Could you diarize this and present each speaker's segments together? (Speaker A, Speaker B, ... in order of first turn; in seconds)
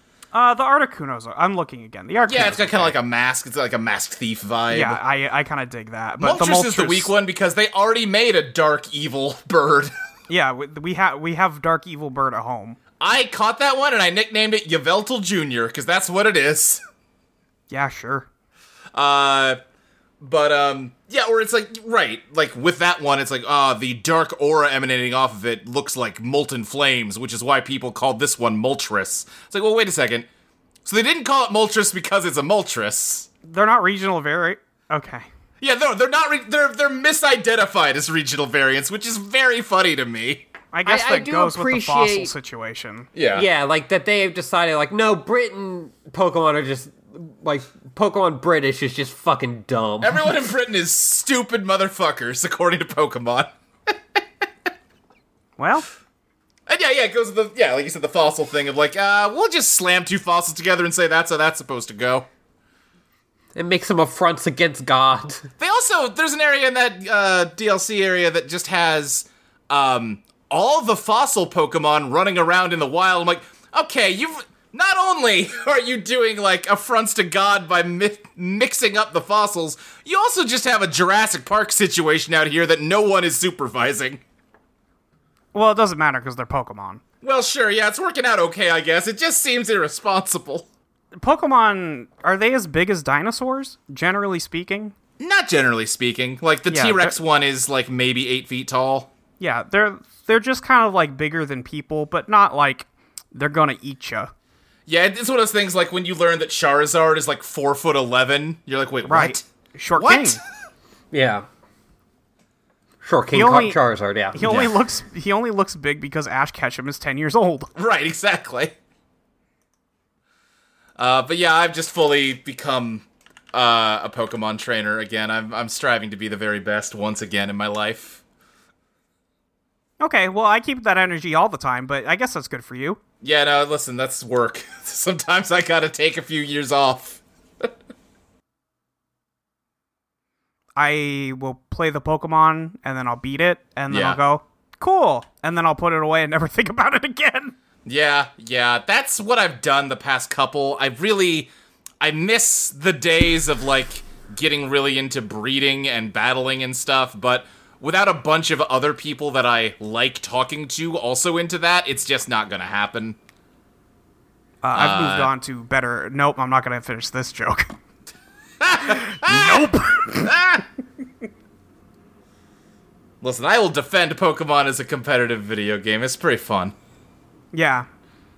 Speaker A: 0.3-2.9, 4.7-7.1, 10.3-12.8, 17.7-18.3, 33.5-35.3, 40.7-43.1, 55.6-55.9, 85.5-87.0, 91.2-94.9, 96.7-97.1, 99.4-104.3, 109.1-110.4, 113.3-113.8, 114.3-117.7, 130.0-133.0, 140.8-147.5, 164.6-167.7, 168.8-170.3, 177.5-177.9
Speaker B: 2.2-5.0, 6.2-9.9, 13.0-16.8, 18.9-19.6, 20.2-30.3, 30.8-33.3, 35.6-40.5, 43.1-43.4, 50.0-54.2, 56.7-62.3, 65.6-84.2, 87.2-90.7, 95.2-99.1, 104.9-109.4, 110.0-110.4, 114.4-114.7, 117.8-118.7, 121.0-128.2, 133.2-137.7, 143.9-144.2, 147.8-151.5, 152.0-163.2, 164.7-165.3, 168.6-170.6, 173.2-176.7
Speaker C: 40.9-42.3, 43.3-50.3, 63.5-65.5, 111.1-111.4, 113.0-114.4